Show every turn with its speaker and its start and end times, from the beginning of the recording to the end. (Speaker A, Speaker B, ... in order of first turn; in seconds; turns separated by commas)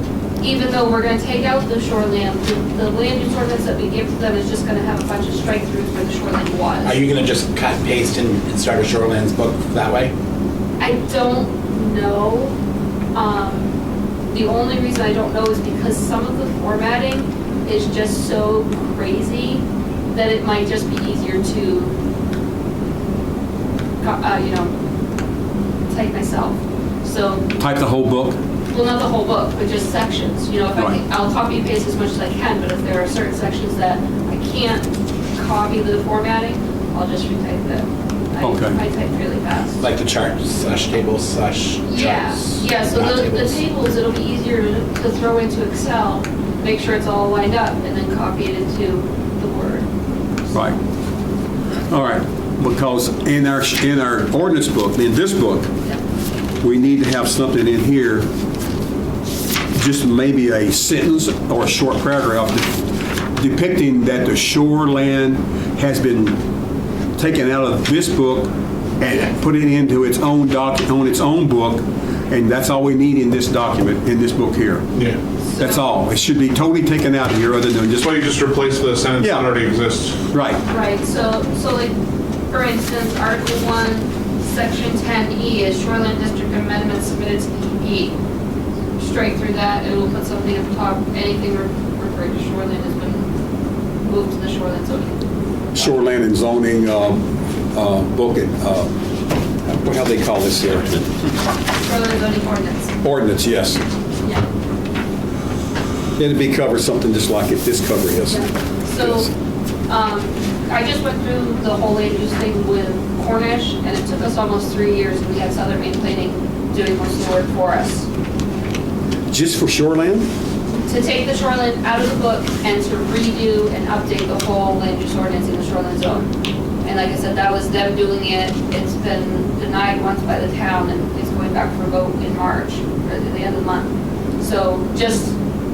Speaker A: 0.4-7.0, Speaker B: 6.8-10.1, Speaker A: 10.8-12.5, Speaker A: 13.1-13.7, Speaker A: 14.3-21.9, Speaker A: 24.0-24.7, Speaker A: 25.9-27.5, Speaker C: 27.6-28.4, Speaker A: 28.7-39.8, Speaker C: 38.4-38.8, Speaker B: 39.8-43.5, Speaker A: 41.9-49.9, Speaker C: 51.9-55.7, Speaker C: 56.6-58.3, Speaker C: 59.7-66.4, Speaker C: 67.2-74.8, Speaker A: 75.5-75.8, Speaker C: 75.6-78.1, Speaker D: 78.0-80.2, Speaker C: 79.2-79.5, Speaker C: 80.3-80.6, Speaker A: 80.7-81.9, Speaker A: 82.5-88.2, Speaker A: 89.0-93.3, Speaker A: 94.0-95.2, Speaker C: 95.7-98.9, Speaker C: 99.7-101.1, Speaker A: 101.8-102.9, Speaker C: 103.0-103.8, Speaker C: 106.2-109.3, Speaker A: 108.3-109.3, Speaker A: 109.9-118.1, Speaker C: 119.3-120.3, Speaker A: 120.8-126.3, Speaker A: 126.8-135.3